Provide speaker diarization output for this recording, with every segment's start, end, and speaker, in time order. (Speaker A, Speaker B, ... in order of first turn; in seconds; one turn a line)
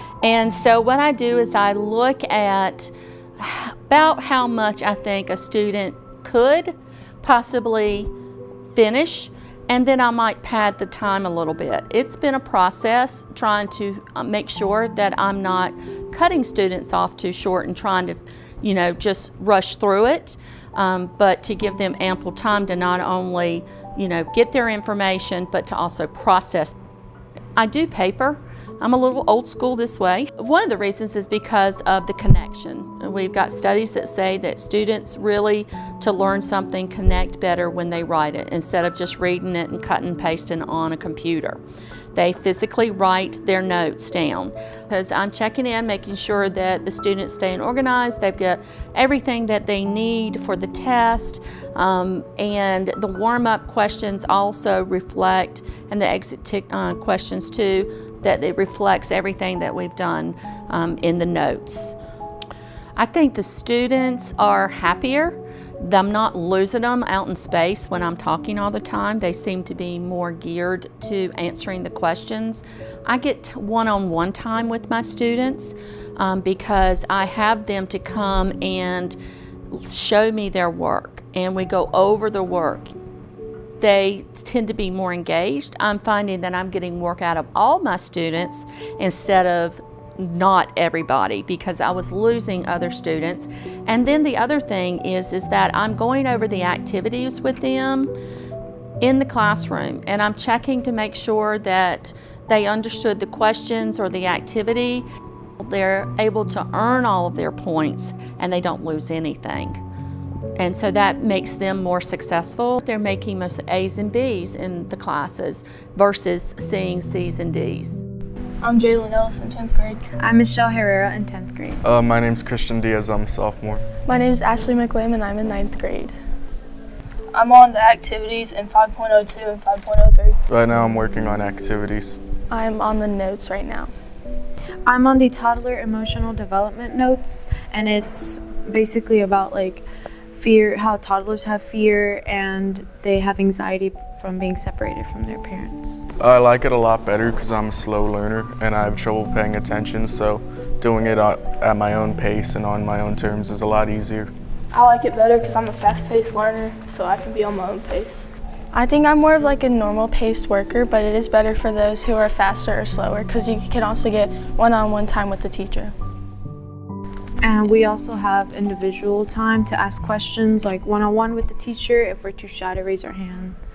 Speaker A: 0.2-8.1
Speaker A: 8.7-26.7
Speaker A: 27.6-41.6
Speaker A: 42.1-62.0
Speaker A: 63.0-79.2
Speaker A: 79.7-82.9
Speaker A: 83.8-98.1
Speaker A: 99.0-105.1
Speaker A: 105.6-109.8
Speaker A: 110.6-118.0
Speaker B: 118.6-120.0
Speaker C: 120.2-121.8
Speaker D: 121.8-123.8
Speaker E: 124.1-126.1
Speaker B: 127.3-130.4
Speaker D: 130.5-132.2
Speaker E: 132.5-133.9
Speaker C: 134.8-139.8
Speaker C: 140.4-146.1
Speaker D: 146.2-154.3
Speaker B: 154.7-158.3
Speaker E: 158.7-165.9
Speaker C: 167.4-173.6